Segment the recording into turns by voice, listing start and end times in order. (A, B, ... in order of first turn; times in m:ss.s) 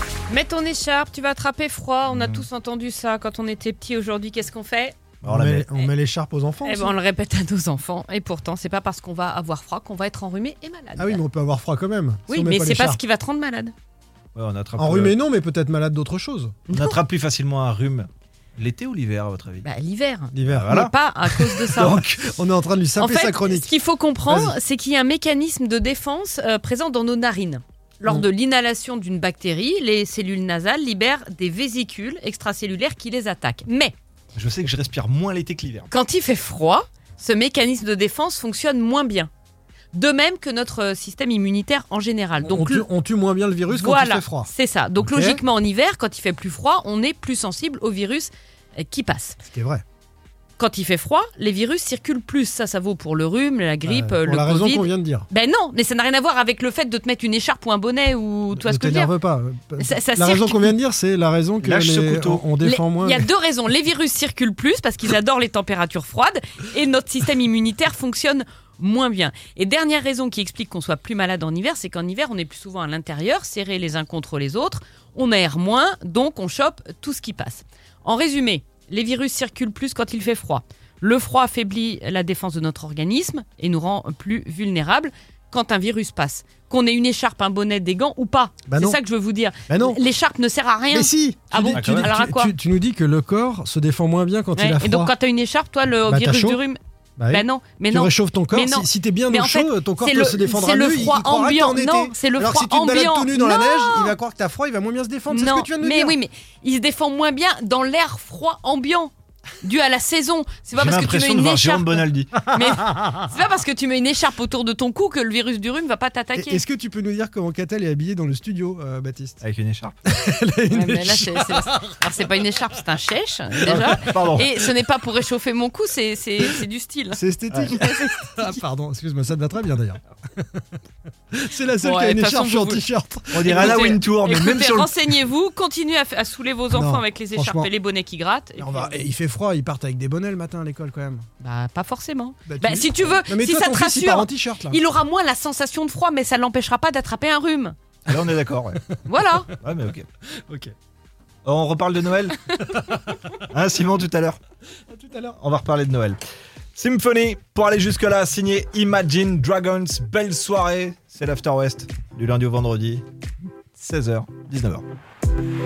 0:00.3-0:05.0 A
0:02.1-0:02.4 B
0:05.2-0:05.7 B
0:05.2-0:07.0 C
0:06.6-0:11.2 A
0:11.0-0:13.0 C
0:12.3-0:13.7 A
0:14.4-0:15.2 B
0:14.8-0:16.6 C
0:16.7-0:17.0 A
0:16.7-0:19.7 B
0:19.6-0:22.0 A
0:20.3-0:20.9 C
0:20.4-0:22.3 B
0:21.8-0:23.7 C
0:23.0-0:34.0 A
0:24.3-0:24.6 C
0:34.4-0:35.9 B
0:35.9-0:39.3 A
0:39.9-0:42.9 A
0:42.4-0:45.4 C
0:43.7-0:49.4 A
0:49.4-0:49.8 C
0:50.6-0:59.1 A
0:53.8-0:55.3 C
0:58.5-1:03.3 C
0:59.8-1:00.7 A
1:01.6-1:02.4 B
1:02.6-1:32.5 A
1:28.7-1:29.0 C
1:29.7-1:30.0 C
1:30.9-1:35.1 C
1:31.6-1:32.2 B
1:34.6-1:44.2 A
1:36.0-1:36.6 C
1:37.2-1:46.2 C
1:45.3-1:56.6 A
1:50.8-1:52.4 B
1:52.5-1:52.7 C
1:56.4-1:59.4 C
1:59.4-2:00.0 B
2:00.0-2:01.9 C
2:00.7-2:08.6 A
2:03.6-2:04.5 B
2:07.1-2:10.6 C
2:07.5-2:07.8 B
2:11.3-2:13.9 C
2:11.8-2:12.8 A
2:13.3-2:15.0 B
2:13.4-2:19.0 A
2:16.7-2:17.7 C
2:18.6-2:21.3 C
2:21.4-2:27.8 A
2:22.5-2:24.8 C
2:28.1-2:28.8 B
2:28.9-2:29.5 C
2:29.1-2:29.5 A
2:29.6-2:30.1 B
2:30.5-2:30.7 C
2:31.4-2:32.5 B
2:32.6-2:33.3 C
2:33.5-2:34.4 B
2:34.9-2:35.4 C
2:35.4-2:36.2 B
2:36.8-2:43.0 B
2:43.8-2:44.8 B